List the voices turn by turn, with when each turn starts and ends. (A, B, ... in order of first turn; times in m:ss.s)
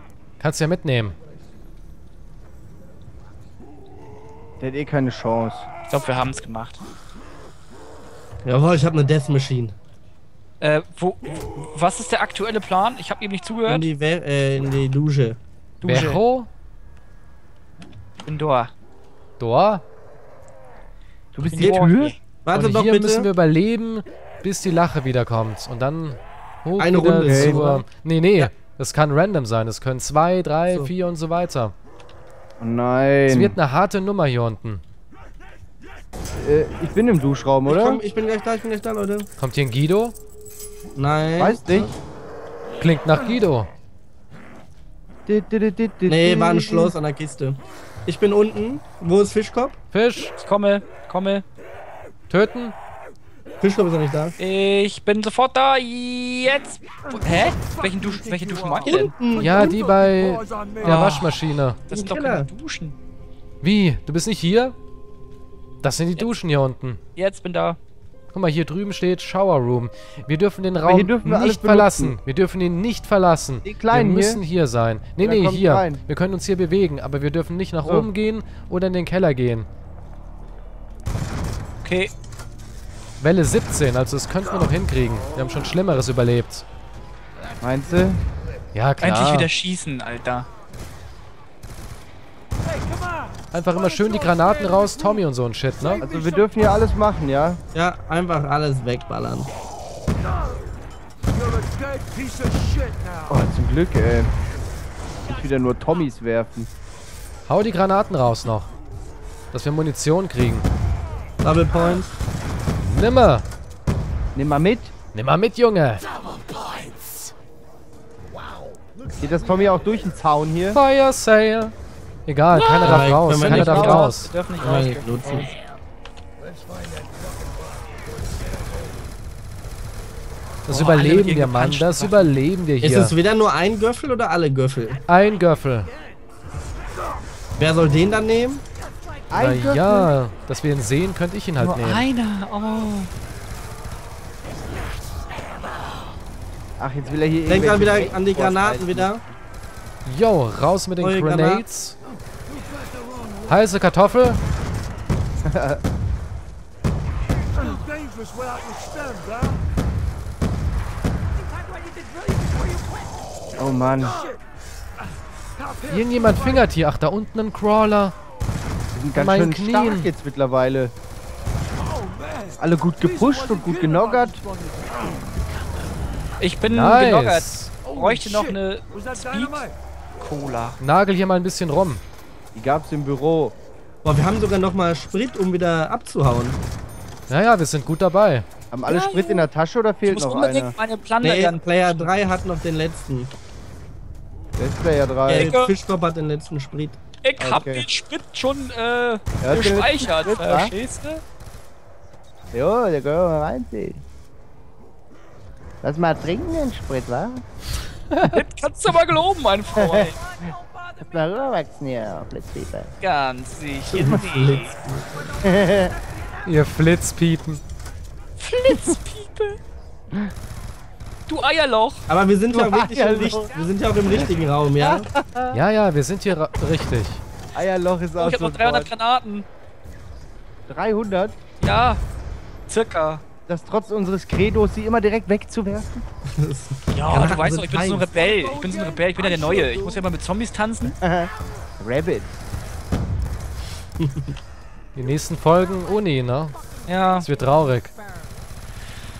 0:00.4-0:01.2 A
0:04.6-0:05.7 B
0:05.9-0:06.8 C
0:08.4-0:09.8 D
0:10.6-0:13.9 C
0:13.6-0:15.4 D
0:15.8-0:16.2 C
0:15.8-0:16.5 A
0:18.2-0:18.7 C
0:19.4-0:19.8 A
0:21.3-0:22.1 B
0:21.4-0:22.2 C
0:21.6-0:21.9 D
0:22.4-0:23.3 D
0:22.5-0:31.7 A
0:26.8-0:27.8 D
0:27.2-0:27.7 B
0:32.6-0:33.6 B
0:33.3-0:34.8 A
0:36.4-0:38.0 B
0:37.6-0:39.3 D
0:39.4-0:40.2 A
0:41.0-0:41.9 D
0:41.4-0:41.9 B
0:42.8-0:43.7 A
0:45.3-0:46.9 B
0:46.0-0:49.8 D
0:49.9-0:50.3 A
0:50.4-0:51.4 C
0:52.3-0:52.7 A
0:53.6-0:54.4 D
0:54.4-0:59.1 C
0:58.8-0:59.8 D
0:59.4-1:01.8 A
1:00.8-1:01.3 C
1:01.9-1:03.0 C
1:01.9-1:02.5 D
1:03.6-1:04.8 A
1:05.8-1:07.0 A
1:07.1-1:07.8 C
1:08.3-1:19.7 A
1:10.9-1:12.2 B
1:13.6-1:14.4 B
1:15.2-1:16.0 B
1:21.8-1:22.1 C
1:23.2-1:26.6 A
1:27.6-1:28.2 B
1:28.7-1:29.5 A
1:29.0-1:30.5 C
1:33.5-1:36.0 A
1:36.0-1:37.6 B
1:37.7-1:39.5 D
1:43.3-1:44.3 B
1:45.3-1:46.7 B
1:47.5-1:48.7 A
1:49.5-1:50.7 A
1:51.4-1:52.1 D
1:52.8-1:53.4 A
1:54.3-1:54.9 B
1:55.1-1:56.0 A
1:59.2-2:00.8 B
2:00.7-2:01.7 A
2:02.2-2:04.3 A
2:02.5-2:05.5 C
2:02.8-2:05.5 D
2:03.5-2:04.1 B
2:10.7-2:13.1 A
2:10.7-2:12.4 C
2:12.8-2:15.0 D
2:15.1-2:15.9 A
2:17.6-2:18.6 D
2:19.3-2:20.1 B
2:19.4-2:22.0 A
2:21.6-2:23.1 C
2:26.8-2:29.3 B
2:27.5-2:29.2 D
2:30.0-2:32.0 A
2:31.0-2:31.6 D
2:33.4-2:34.4 A
2:35.5-2:35.8 B
2:43.6-2:44.2 B
2:45.9-2:48.1 A
2:48.9-2:50.9 B
2:49.1-2:50.1 A
2:52.6-2:54.4 B
2:56.4-3:00.8 C
2:56.7-2:57.7 A
3:00.8-3:02.0 A
3:02.5-3:03.5 B
3:04.0-3:06.6 D
3:07.3-3:08.5 A
3:08.7-3:10.7 B
3:08.9-3:09.5 C
3:10.0-3:12.1 C
3:11.2-3:13.3 D
3:14.6-3:15.5 B
3:15.3-3:17.0 D
3:15.3-3:15.7 C
3:17.2-3:21.2 C
3:17.4-3:17.8 B
3:19.4-3:20.7 B
3:22.5-3:24.0 B
3:25.8-3:27.4 B
3:28.2-3:30.1 C
3:29.8-3:30.1 B
3:31.0-3:32.9 B
3:33.0-3:34.7 C
3:33.9-3:35.3 D
3:35.4-3:35.9 B
3:36.4-3:37.6 A
3:38.4-3:39.6 C
3:41.3-3:42.0 C
3:42.1-3:45.1 D
3:42.5-3:43.5 B
3:44.8-3:45.6 B
3:45.5-3:47.2 A
3:47.5-3:48.9 B
3:48.2-3:49.5 C
3:50.7-3:51.4 B
3:51.6-3:52.0 C
3:52.7-3:53.2 C
3:53.5-3:56.0 B
3:56.3-3:58.1 D
3:56.9-4:00.9 C
4:01.0-4:02.3 B
4:04.0-4:04.3 D
4:04.9-4:06.6 A
4:06.8-4:07.3 C
4:07.2-4:07.9 A